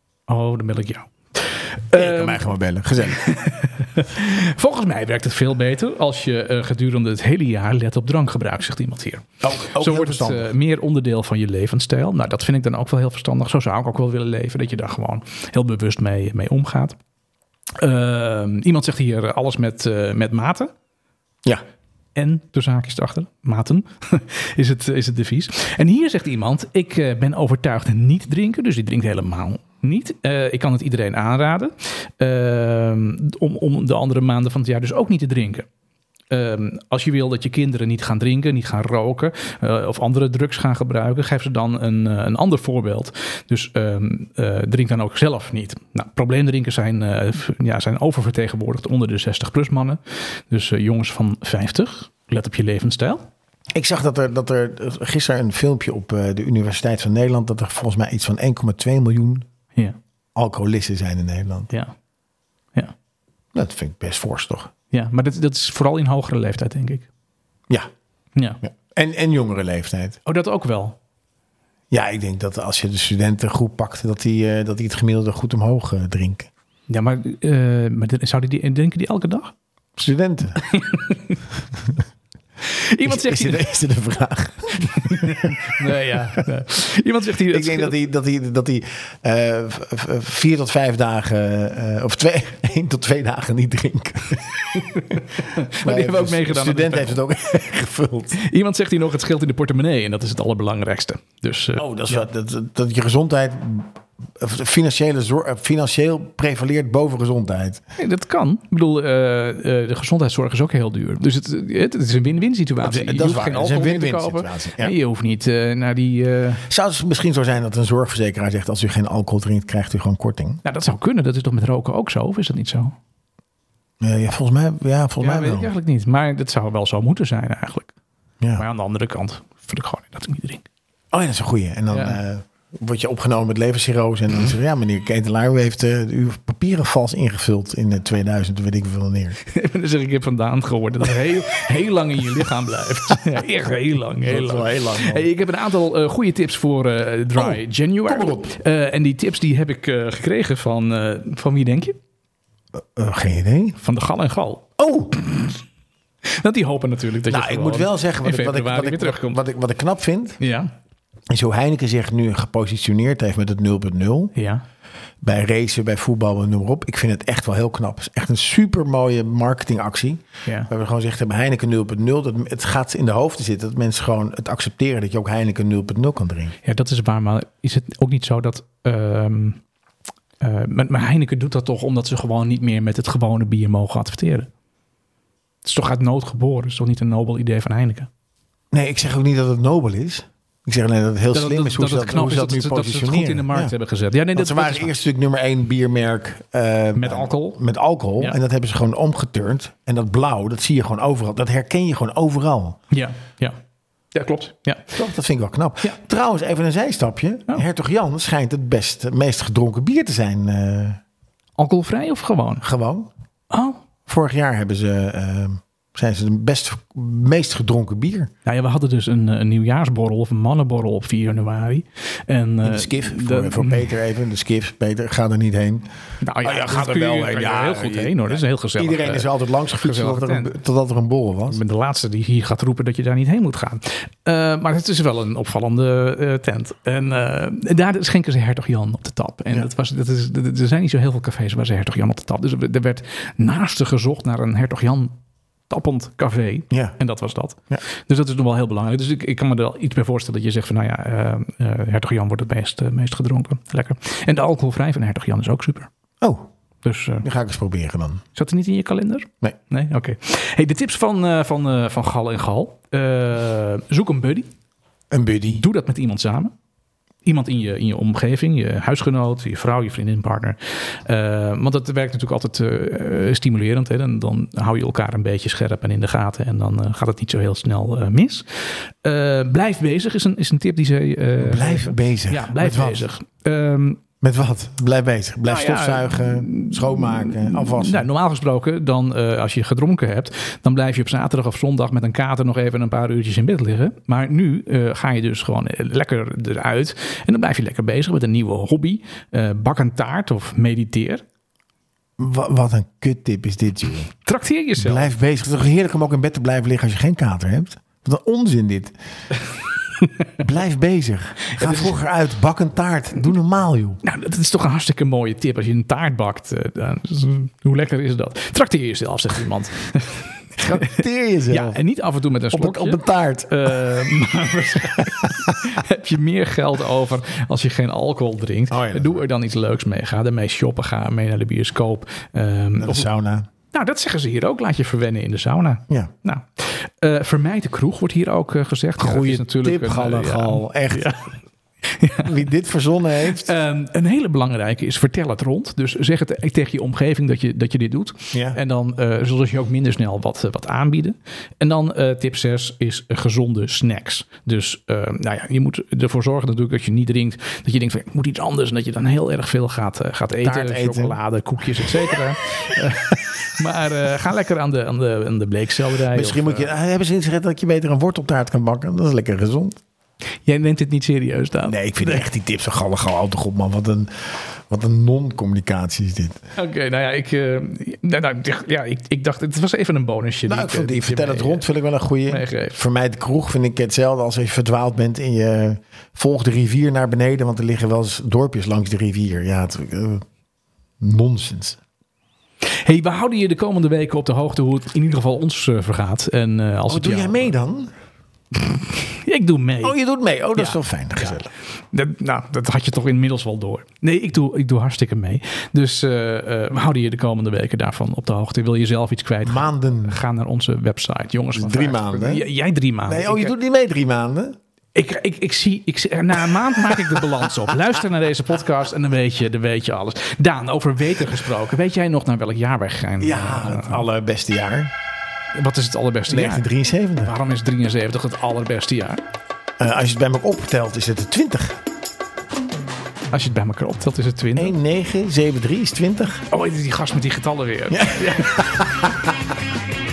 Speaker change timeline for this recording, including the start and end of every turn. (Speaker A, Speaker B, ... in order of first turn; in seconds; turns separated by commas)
Speaker A: 0.3-17.0, Speaker B: 1.9-3.2, Speaker B: 9.4-10.5, Speaker A: 17.8-20.7, Speaker A: 22.1-35.7, Speaker A: 36.3-53.2, Speaker B: 53.7-59.5, Speaker B: 60.3-61.7, Speaker B: 63.5-64.7, Speaker A: 64.9-67.1, Speaker A: 68.3-68.6, Speaker B: 68.6-70.2, Speaker A: 70.2-71.0, Speaker B: 71.9-76.5, Speaker A: 76.9-79.5, Speaker B: 80.0-80.6, Speaker A: 80.6-81.4, Speaker A: 82.6-83.7, Speaker B: 83.0-86.4, Speaker A: 84.8-88.0, Speaker B: 87.5-94.5, Speaker A: 94.7-97.2, Speaker B: 95.8-98.4, Speaker A: 98.3-102.2, Speaker B: 101.8-107.8, Speaker A: 108.0-116.6, Speaker B: 112.8-114.9, Speaker B: 116.7-120.6, Speaker A: 120.6-123.0, Speaker B: 124.0-125.7, Speaker A: 125.2-127.9, Speaker A: 128.6-130.6, Speaker B: 131.1-139.4, Speaker A: 131.9-132.2, Speaker A: 139.4-152.0, Speaker B: 144.2-145.3, Speaker B: 147.3-148.5, Speaker B: 152.7-153.8, Speaker A: 153.8-154.7, Speaker B: 154.8-155.4, Speaker A: 156.2-159.4, Speaker B: 157.3-160.4, Speaker A: 160.4-160.7, Speaker B: 161.3-164.3, Speaker A: 164.3-164.6, Speaker B: 165.2-176.5, Speaker A: 176.6-179.6, Speaker A: 180.4-184.5, Speaker A: 185.6-188.1, Speaker B: 188.7-193.7, Speaker A: 191.3-194.9, Speaker B: 194.3-202.8, Speaker A: 196.9-197.6, Speaker A: 202.9-203.6, Speaker A: 204.1-204.9, Speaker B: 204.9-211.0, Speaker A: 211.6-212.6, Speaker B: 212.6-213.1, Speaker A: 213.5-213.8, Speaker B: 214.1-218.3, Speaker A: 218.4-223.9, Speaker B: 222.6-225.9, Speaker A: 226.2-230.5, Speaker B: 226.4-231.6, Speaker A: 231.5-245.2, Speaker A: 245.7-255.9, Speaker B: 256.2-256.5, Speaker A: 256.8-257.3, Speaker B: 257.2-258.2, Speaker A: 258.3-264.5, Speaker B: 265.1-265.6, Speaker A: 265.5-266.5, Speaker A: 267.2-284.0, Speaker B: 281.4-283.0, Speaker B: 284.2-288.1, Speaker A: 285.5-301.2, Speaker B: 302.2-304.1, Speaker A: 304.2-305.1, Speaker B: 304.8-308.9, Speaker B: 310.4-314.0, Speaker A: 311.5-312.0, Speaker A: 314.0-320.9, Speaker B: 320.6-321.8, Speaker A: 321.5-333.1, Speaker B: 322.5-324.1, Speaker B: 325.0-325.6, Speaker B: 328.7-329.2, Speaker B: 332.8-333.5, Speaker A: 333.7-341.3, Speaker B: 339.0-341.1, Speaker A: 341.8-342.3, Speaker B: 342.2-343.5, Speaker A: 343.2-366.7, Speaker B: 348.3-348.6, Speaker B: 360.4-361.2, Speaker B: 361.9-362.1, Speaker B: 366.1-369.8, Speaker A: 370.4-372.2, Speaker B: 371.6-376.4, Speaker A: 376.6-381.7, Speaker B: 380.4-390.2, Speaker A: 382.3-382.8, Speaker B: 391.0-391.8, Speaker A: 392.8-397.5, Speaker B: 396.9-397.9, Speaker A: 398.9-400.0, Speaker B: 399.8-401.5, Speaker A: 401.9-413.5, Speaker B: 409.4-410.2, Speaker B: 411.5-412.4, Speaker B: 413.1-414.6, Speaker A: 414.9-424.0, Speaker B: 416.9-417.7, Speaker B: 423.2-424.9, Speaker A: 425.5-429.2, Speaker B: 426.3-427.3, Speaker B: 429.8-431.8, Speaker A: 433.3-434.8, Speaker B: 434.6-436.4, Speaker A: 436.5-438.8, Speaker B: 437.9-439.3